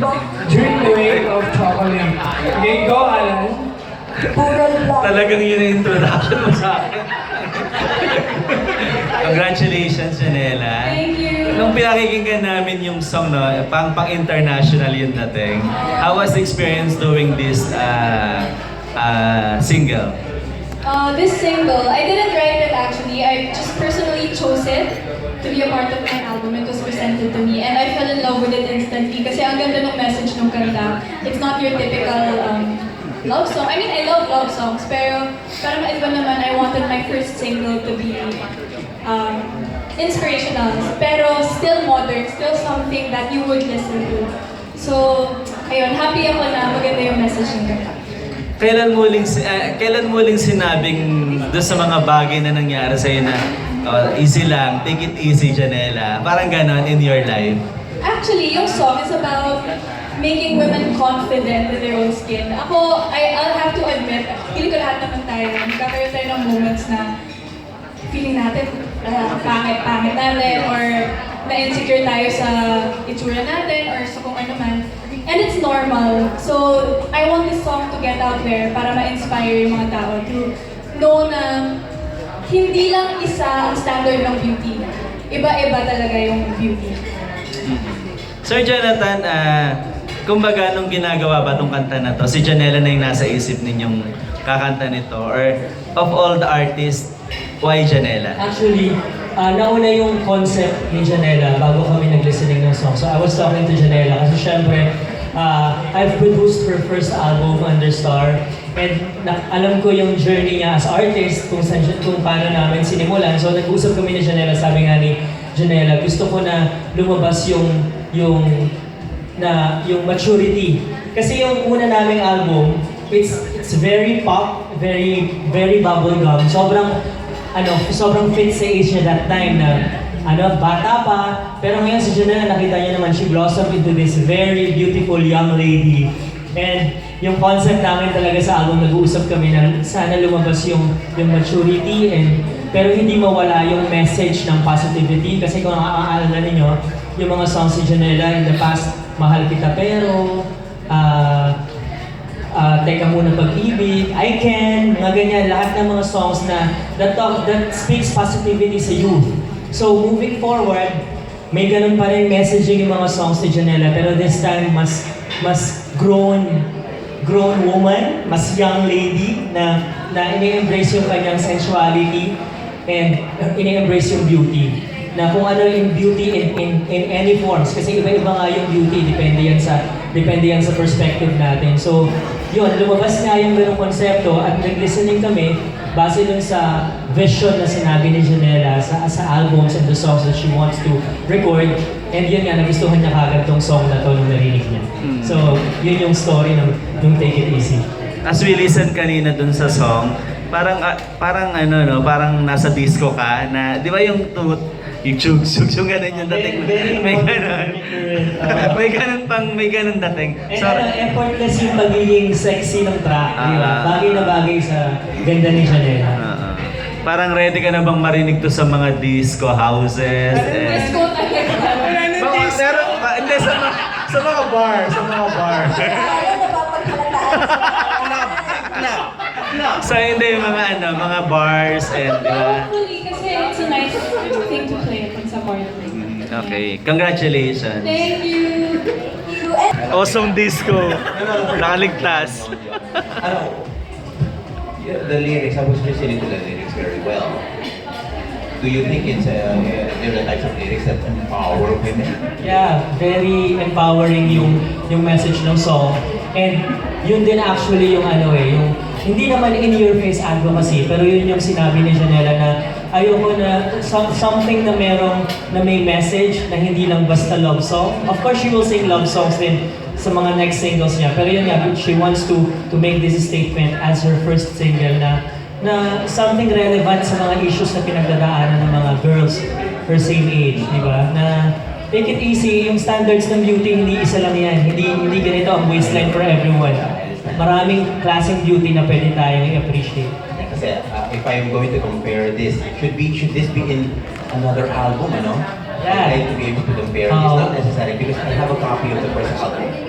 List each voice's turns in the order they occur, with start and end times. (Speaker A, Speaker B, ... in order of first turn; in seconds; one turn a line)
Speaker A: 0.4-3.7
Speaker B: 4.8-7.0
Speaker B: 7.7-20.1
Speaker C: 10.8-11.7
Speaker C: 15.7-16.2
Speaker C: 20.8-38.4
Speaker C: 39.0-47.9
Speaker B: 48.6-57.6
Speaker C: 58.0-59.6
Speaker C: 60.1-67.1
Speaker C: 68.1-81.8
Speaker C: 82.4-87.0
Speaker B: 87.7-89.8
Speaker B: 90.3-97.0
Speaker B: 97.6-98.4
Speaker D: 98.3-118.7
Speaker D: 119.4-127.0
Speaker D: 127.5-151.6
Speaker D: 152.5-166.7
Speaker D: 167.2-172.3
Speaker D: 172.9-197.8
Speaker B: 195.0-195.6
Speaker B: 198.2-211.0
Speaker D: 206.2-208.8
Speaker D: 210.5-216.2
Speaker B: 213.4-214.3
Speaker B: 216.2-221.1
Speaker A: 220.3-223.1
Speaker C: 220.4-222.0
Speaker B: 222.2-226.4
Speaker E: 225.6-228.6
Speaker B: 227.4-228.9
Speaker B: 229.6-232.7
Speaker C: 232.2-236.6
Speaker B: 235.9-238.1
Speaker C: 237.8-238.8
Speaker E: 239.2-239.7
Speaker F: 239.8-243.7
Speaker B: 239.9-242.5
Speaker F: 244.8-247.4
Speaker F: 248.6-252.2
Speaker D: 252.4-286.8
Speaker F: 254.2-254.5
Speaker F: 285.7-287.5
Speaker D: 287.4-290.1
Speaker F: 290.3-299.7
Speaker D: 295.8-296.2
Speaker D: 297.1-297.5